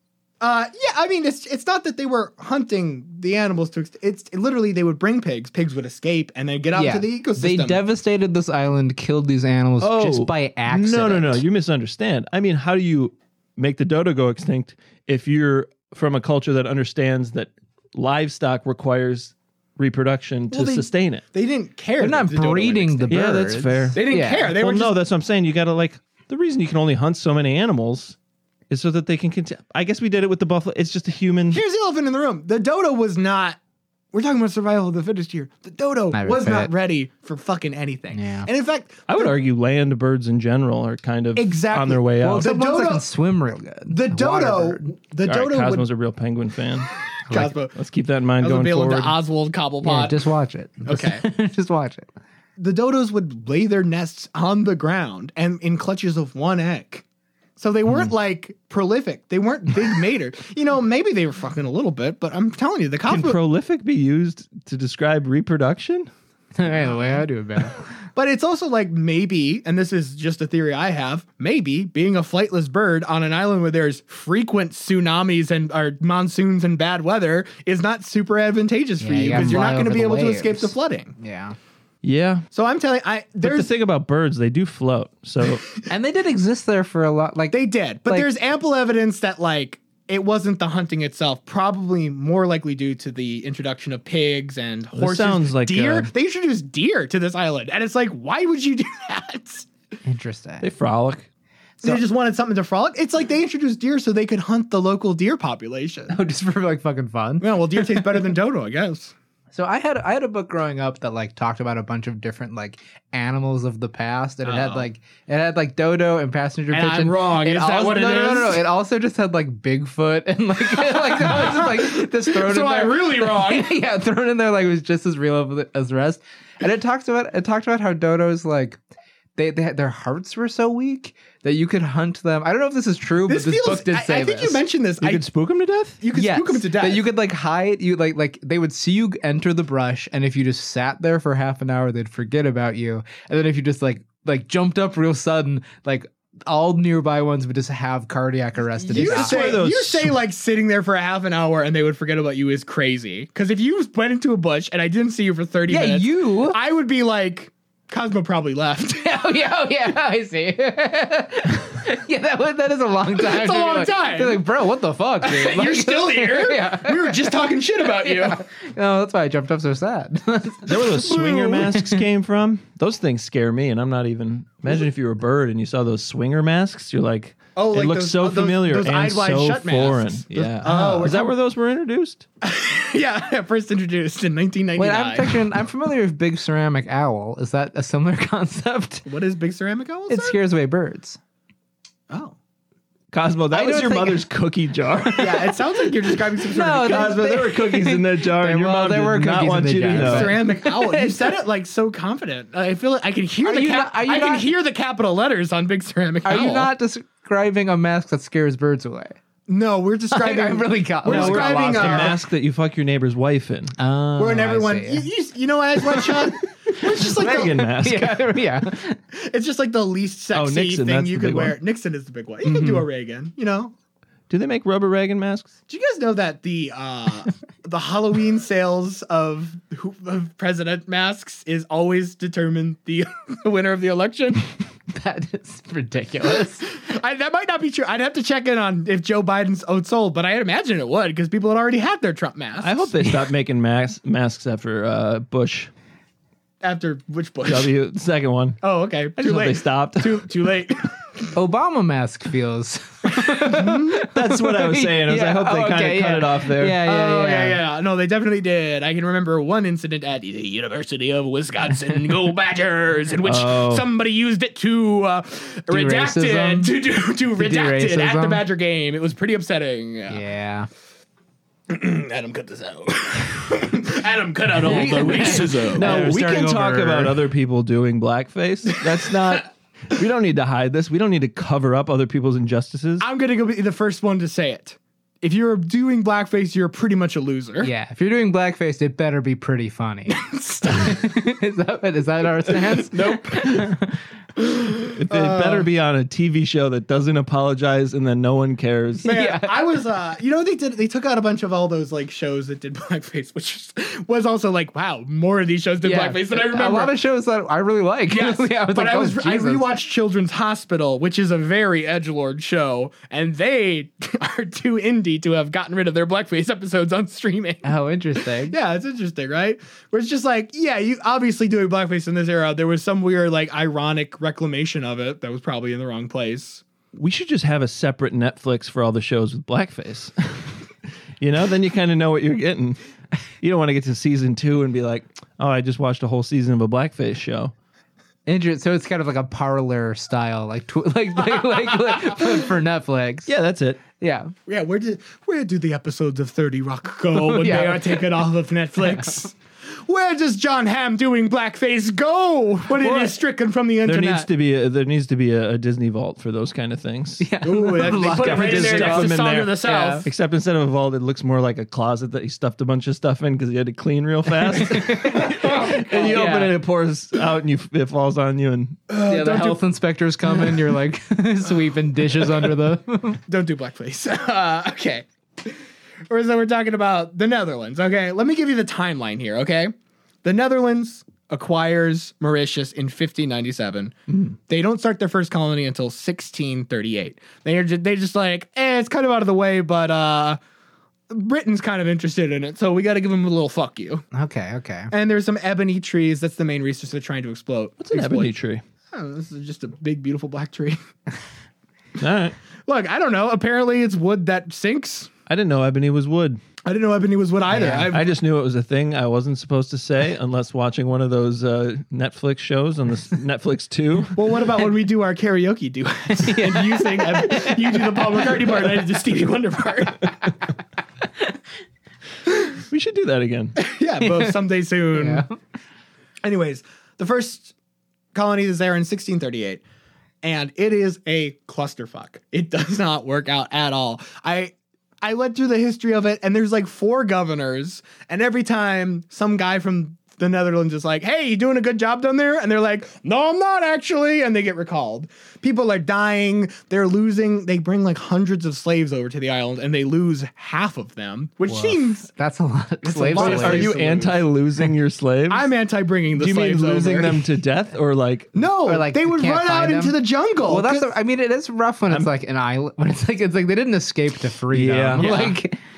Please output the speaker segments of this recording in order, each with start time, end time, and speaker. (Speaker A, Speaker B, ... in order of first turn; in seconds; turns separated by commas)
Speaker A: 0.4-7.8, Speaker B: 6.7-11.4, Speaker C: 9.8-21.2, Speaker A: 20.5-23.2, Speaker B: 22.0-24.6, Speaker C: 23.1-28.2, Speaker A: 23.9-25.0, Speaker C: 28.7-31.6, Speaker A: 31.5-33.6, Speaker A: 34.1-39.3, Speaker B: 36.1-36.7, Speaker B: 38.1-38.5, Speaker C: 39.1-42.5, Speaker A: 41.4-43.1, Speaker B: 42.2-44.9, Speaker A: 43.9-45.9, Speaker C: 45.3-49.1, Speaker A: 47.3-47.8, Speaker A: 48.4-50.2, Speaker B: 49.8-52.1, Speaker A: 50.9-51.2, Speaker A: 52.6-57.0, Speaker A: 57.6-63.4, Speaker C: 63.1-66.1, Speaker B: 66.6-67.8, Speaker A: 68.2-81.1, Speaker B: 79.0-81.6, Speaker C: 82.0-82.5, Speaker A: 82.5-83.7, Speaker C: 83.4-85.6, Speaker B: 85.9-88.3, Speaker A: 87.5-99.7, Speaker C: 94.9-96.1, Speaker B: 100.0-100.7, Speaker C: 100.6-101.3, Speaker A: 101.8-106.2, Speaker B: 106.1-108.3, Speaker A: 107.4-109.1, Speaker B: 109.5-128.8, Speaker A: 114.4-114.9, Speaker A: 116.7-118.6, Speaker A: 120.9-123.8, Speaker B: 129.4-134.6, Speaker A: 133.3-135.3, Speaker C: 135.0-136.0, Speaker A: 136.0-137.1, Speaker B: 136.1-149.6, Speaker A: 148.8-159.2, Speaker C: 148.9-150.2, Speaker B: 155.7-156.6, Speaker B: 159.0-172.0, Speaker A: 163.2-164.4, Speaker A: 165.2-168.4, Speaker C: 170.7-182.2, Speaker A: 171.1-171.7, Speaker A: 177.6-181.3, Speaker A: 182.4-185.4, Speaker B: 184.8-189.1, Speaker A: 189.1-190.4, Speaker B: 190.1-191.2, Speaker A: 192.1-192.4, Speaker C: 193.1-195.5, Speaker B: 193.5-194.3, Speaker B: 194.9-201.4, Speaker A: 195.2-197.2, Speaker C: 196.8-200.3, Speaker A: 199.9-206.7, Speaker B: 203.4-204.5, Speaker B: 206.2-209.2, Speaker A: 209.5-212.2, Speaker B: 210.1-212.2, Speaker C: 211.1-213.8, Speaker B: 213.8-215.1, Speaker A: 214.2-217.6, Speaker B: 215.8-219.0, Speaker C: 216.8-218.2, Speaker A: 219.1-223.7, Speaker C: 220.3-221.6, Speaker B: 222.5-222.8, Speaker C: 224.3-225.5, Speaker A: 225.7-234.5, Speaker B: 234.9-236.7, Speaker A: 236.7-243.1, Speaker C: 242.6-245.7, Speaker A: 246.6-247.7, Speaker C: 247.4-248.6, Speaker A: 248.6-251.2, Speaker C: 249.2-250.3, Speaker B: 251.3-257.6, Speaker A: 253.4-254.1, Speaker C: 254.1-256.8, Speaker A: 256.9-270.2, Speaker C: 263.2-263.9, Speaker B: 265.7-266.7, Speaker B: 267.4-268.4, Speaker B: 270.1-270.7, Speaker A: 271.7-276.0, Speaker B: 274.6-277.2, Speaker C: 274.7-283.1, Speaker A: 283.0-287.7, Speaker B: 287.6-294.0, Speaker A: 290.1-291.1, Speaker A: 292.7-293.7, Speaker A: 294.4-295.7, Speaker C: 295.0-299.1, Speaker B: 299.0-299.6, Speaker A: 299.1-306.9, Speaker B: 305.8-309.7, Speaker A: 308.1-317.7, Speaker B: 317.6-318.6, Speaker A: 318.4-326.6, Speaker C: 326.9-330.6, Speaker C: 331.2-332.8, Speaker C: 333.4-337.5, Speaker B: 338.3-343.3, Speaker C: 343.3-343.8, Speaker B: 344.0-344.3, Speaker A: 344.5-354.3, Speaker B: 347.1-348.1, Speaker B: 348.9-349.2, Speaker C: 352.8-353.1, Speaker C: 353.9-357.3, Speaker B: 357.2-360.1, Speaker A: 357.4-360.1, Speaker C: 357.9-368.8, Speaker B: 364.4-366.6, Speaker A: 365.3-366.2, Speaker A: 368.9-369.6, Speaker B: 369.0-373.2, Speaker A: 373.3-379.7, Speaker A: 380.2-390.4, Speaker A: 391.1-394.1, Speaker B: 394.1-394.9, Speaker A: 394.9-398.4, Speaker C: 397.8-398.6, Speaker A: 398.9-400.8, Speaker C: 402.0-402.4, Speaker A: 402.7-405.1, Speaker C: 405.3-406.4, Speaker A: 406.6-408.1, Speaker B: 407.5-407.9, Speaker C: 407.9-414.2, Speaker A: 414.1-420.2, Speaker B: 416.1-418.5, Speaker C: 422.7-423.6, Speaker A: 423.6-425.3, Speaker B: 424.0-424.4, Speaker B: 424.9-425.3, Speaker A: 426.2-427.5, Speaker A: 428.1-429.6, Speaker A: 430.2-452.1, Speaker B: 451.5-453.8, Speaker A: 452.8-454.2, Speaker C: 453.1-455.5, Speaker A: 455.3-457.2, Speaker C: 456.1-458.3, Speaker A: 458.4-460.9, Speaker B: 458.7-465.6, Speaker C: 464.5-465.3, Speaker A: 465.0-465.4